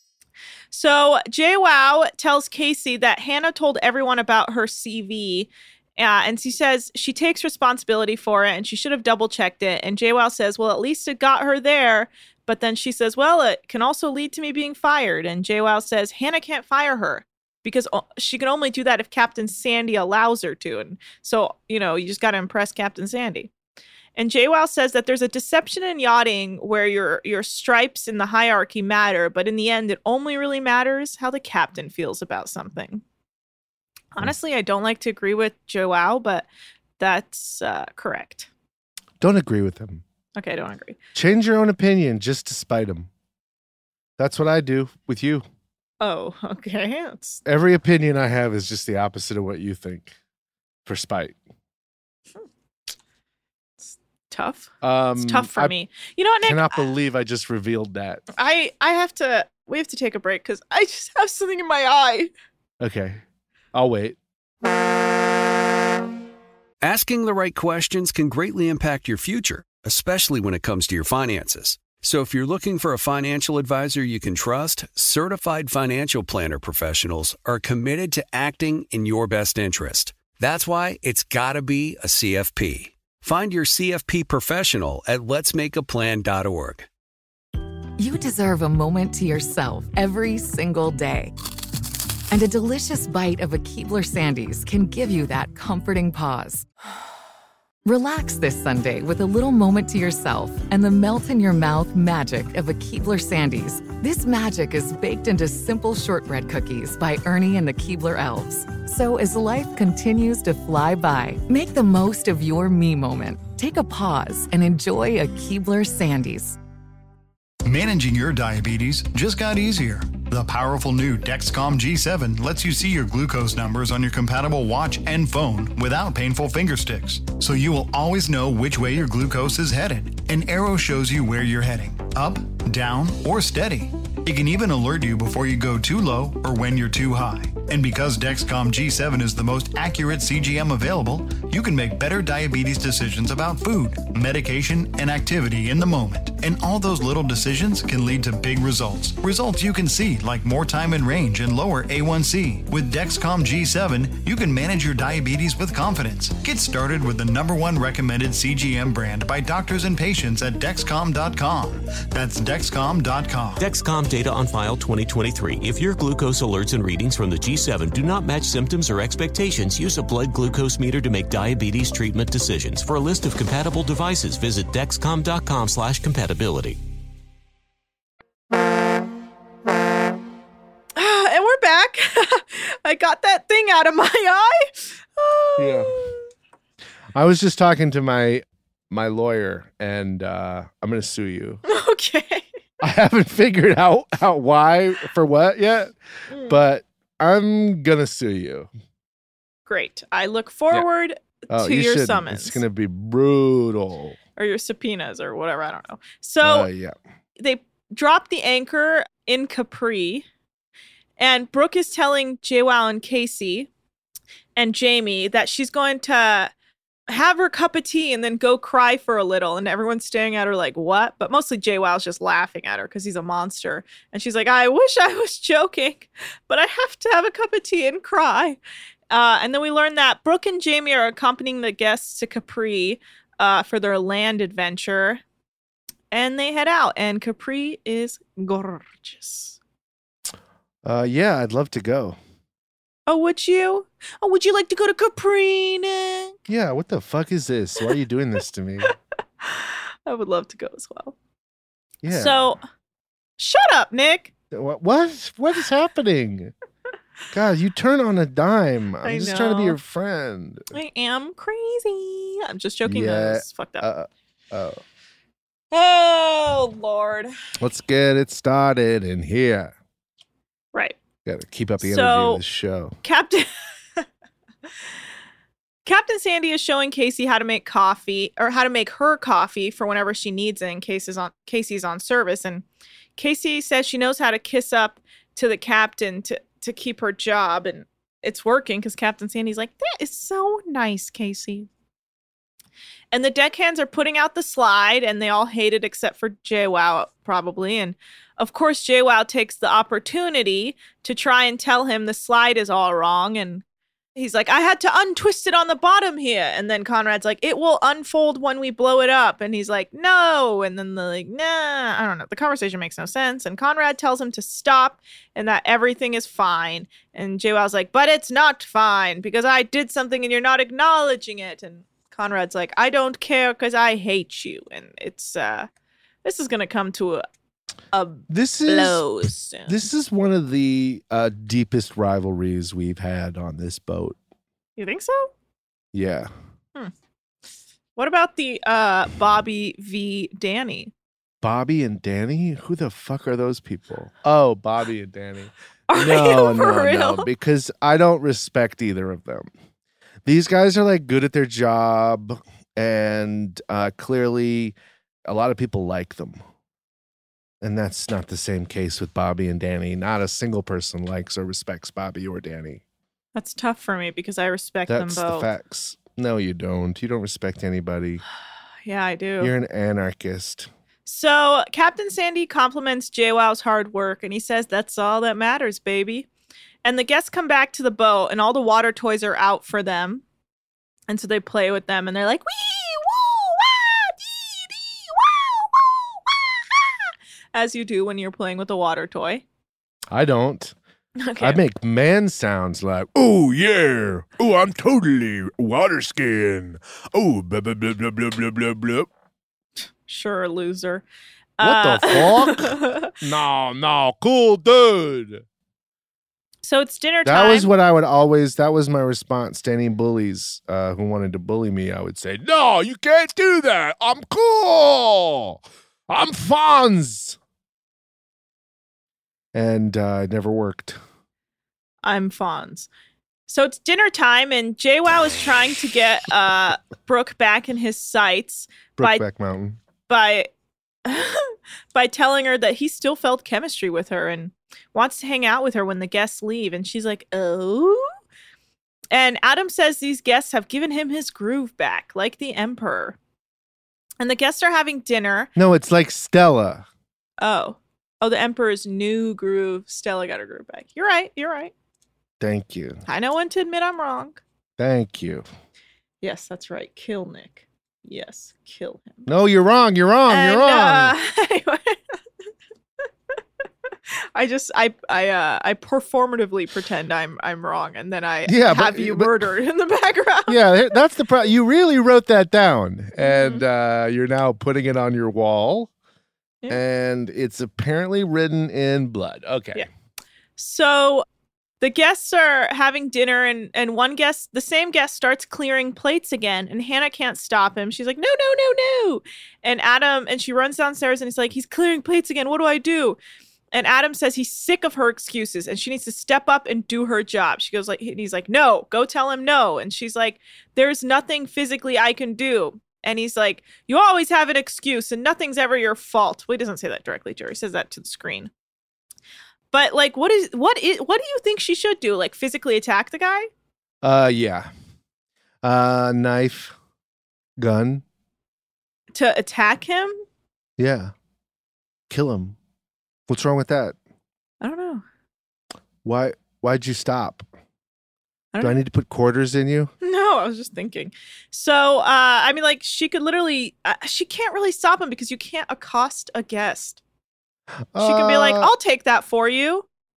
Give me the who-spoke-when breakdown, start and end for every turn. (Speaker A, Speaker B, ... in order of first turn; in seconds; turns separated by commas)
Speaker A: 0.7-23.5, Speaker A: 24.2-33.0, Speaker A: 34.1-36.5, Speaker A: 37.0-38.5, Speaker B: 39.2-40.0, Speaker A: 40.4-41.0, Speaker B: 41.1-43.1, Speaker B: 44.2-45.5, Speaker A: 46.0-47.4, Speaker B: 47.5-50.1, Speaker B: 50.9-51.4, Speaker A: 53.8-56.9, Speaker B: 54.8-55.7, Speaker B: 56.4-58.2, Speaker A: 58.3-62.3, Speaker B: 62.8-63.2, Speaker B: 63.7-64.2, Speaker C: 66.8-86.9, Speaker D: 88.0-91.3, Speaker D: 92.3-96.7, Speaker D: 97.8-116.6, Speaker E: 117.7-163.7, Speaker F: 163.6-176.8, Speaker A: 181.0-186.2, Speaker B: 185.6-185.9, Speaker B: 187.1-191.6, Speaker A: 191.7-192.4, Speaker B: 192.8-198.7, Speaker A: 196.3-196.6, Speaker A: 199.7-202.6, Speaker B: 201.5-204.2, Speaker A: 204.4-206.7, Speaker B: 206.4-207.0, Speaker A: 207.4-210.3, Speaker A: 211.2-213.7, Speaker A: 214.6-216.5, Speaker A: 217.1-228.6, Speaker A: 229.1-235.2, Speaker A: 236.1-239.6, Speaker B: 240.8-242.2, Speaker A: 243.1-246.4, Speaker B: 246.5-248.9, Speaker A: 248.9-251.2, Speaker B: 252.0-252.6, Speaker A: 252.1-252.6, Speaker A: 253.4-254.3, Speaker B: 254.5-256.5, Speaker B: 257.3-260.7, Speaker A: 259.0-259.8, Speaker A: 260.7-263.9, Speaker B: 262.9-264.8, Speaker A: 265.7-267.3, Speaker B: 267.6-269.7, Speaker B: 271.2-273.0, Speaker A: 271.8-272.4, Speaker A: 273.0-274.1, Speaker A: 275.9-282.6, Speaker A: 283.2-291.7, Speaker A: 293.1-303.6, Speaker A: 304.2-325.7, Speaker A: 326.2-327.2, Speaker A: 327.9-329.8, Speaker B: 328.3-329.1, Speaker B: 329.7-334.2, Speaker A: 334.8-335.3, Speaker B: 335.9-336.3, Speaker A: 338.0-340.9, Speaker B: 341.4-349.5, Speaker A: 345.9-347.3, Speaker B: 350.2-354.8, Speaker B: 355.3-356.4, Speaker B: 357.6-362.8, Speaker A: 363.4-365.5, Speaker B: 364.9-368.2, Speaker A: 368.9-369.5, Speaker B: 369.4-370.7, Speaker A: 371.1-376.3, Speaker A: 376.8-380.2, Speaker A: 381.1-389.4, Speaker B: 390.1-390.8, Speaker A: 391.2-391.6, Speaker B: 391.4-399.1, Speaker A: 400.1-401.1, Speaker A: 401.6-403.1, Speaker B: 401.6-405.4, Speaker A: 406.6-407.7, Speaker B: 407.2-417.4, Speaker B: 419.5-421.0, Speaker A: 422.0-422.9, Speaker A: 423.5-429.2, Speaker B: 429.0-429.8, Speaker A: 430.1-430.5, Speaker A: 431.1-438.1, Speaker A: 439.1-443.2, Speaker A: 444.2-445.5, Speaker B: 445.6-446.9, Speaker A: 447.4-451.7, Speaker B: 452.4-453.0, Speaker A: 453.1-454.4, Speaker B: 454.8-455.5, Speaker A: 456.2-459.3, Speaker B: 459.3-461.1, Speaker A: 460.3-462.2, Speaker A: 464.4-470.6, Speaker B: 468.5-469.4, Speaker B: 470.5-475.9, Speaker A: 473.2-473.6, Speaker B: 476.7-479.9, Speaker A: 480.6-481.3, Speaker A: 481.8-493.2, Speaker A: 493.7-508.5, Speaker A: 509.7-513.5, Speaker B: 514.0-514.7, Speaker B: 515.6-516.8, Speaker B: 517.6-518.0, Speaker A: 519.1-520.2, Speaker B: 520.8-521.1, Speaker B: 522.1-522.6, Speaker B: 523.3-524.0, Speaker A: 524.6-525.0, Speaker B: 526.0-527.5, Speaker B: 528.6-529.9, Speaker A: 530.0-537.0, Speaker B: 537.9-538.7, Speaker A: 538.0-539.9